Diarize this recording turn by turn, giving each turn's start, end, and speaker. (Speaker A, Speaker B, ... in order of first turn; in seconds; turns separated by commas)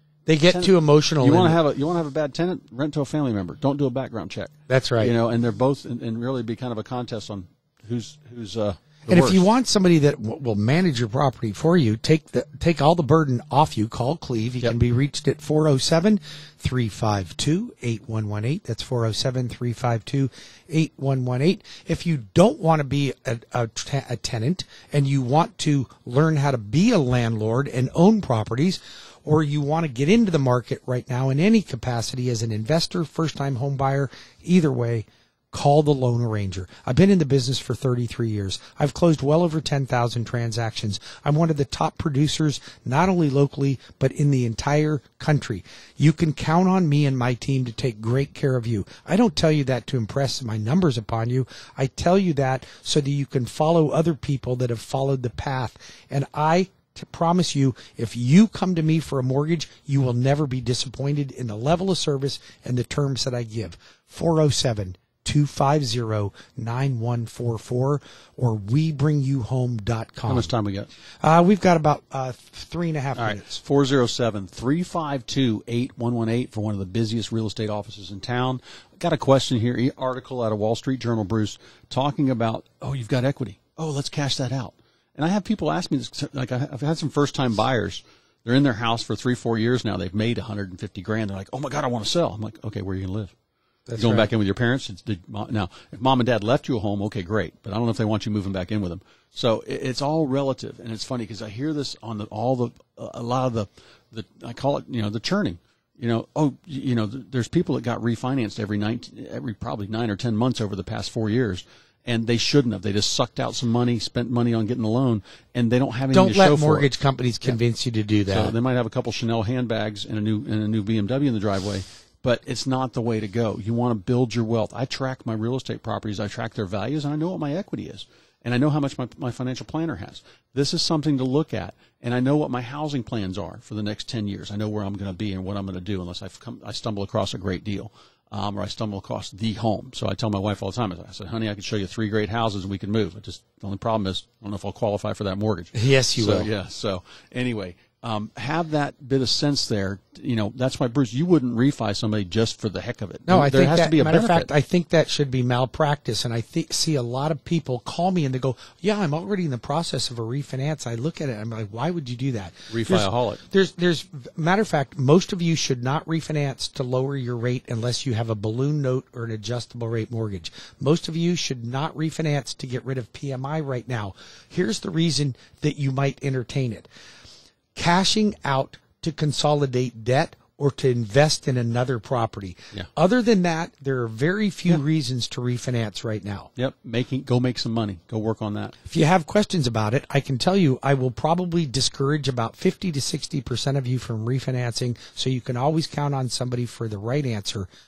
Speaker A: 0.3-1.6, Speaker B: 0.4-9.5, Speaker A: 4.7-5.1, Speaker A: 9.1-70.5, Speaker B: 70.3-70.9, Speaker A: 71.2-73.6, Speaker B: 73.2-93.3, Speaker A: 93.9-94.3, Speaker B: 94.0-116.9, Speaker A: 116.1-118.5, Speaker B: 118.3-154.5, Speaker A: 145.7-146.5, Speaker A: 153.3-176.9, Speaker B: 162.7-163.4, Speaker A: 177.7-186.5, Speaker B: 186.6-188.7, Speaker A: 188.9-197.7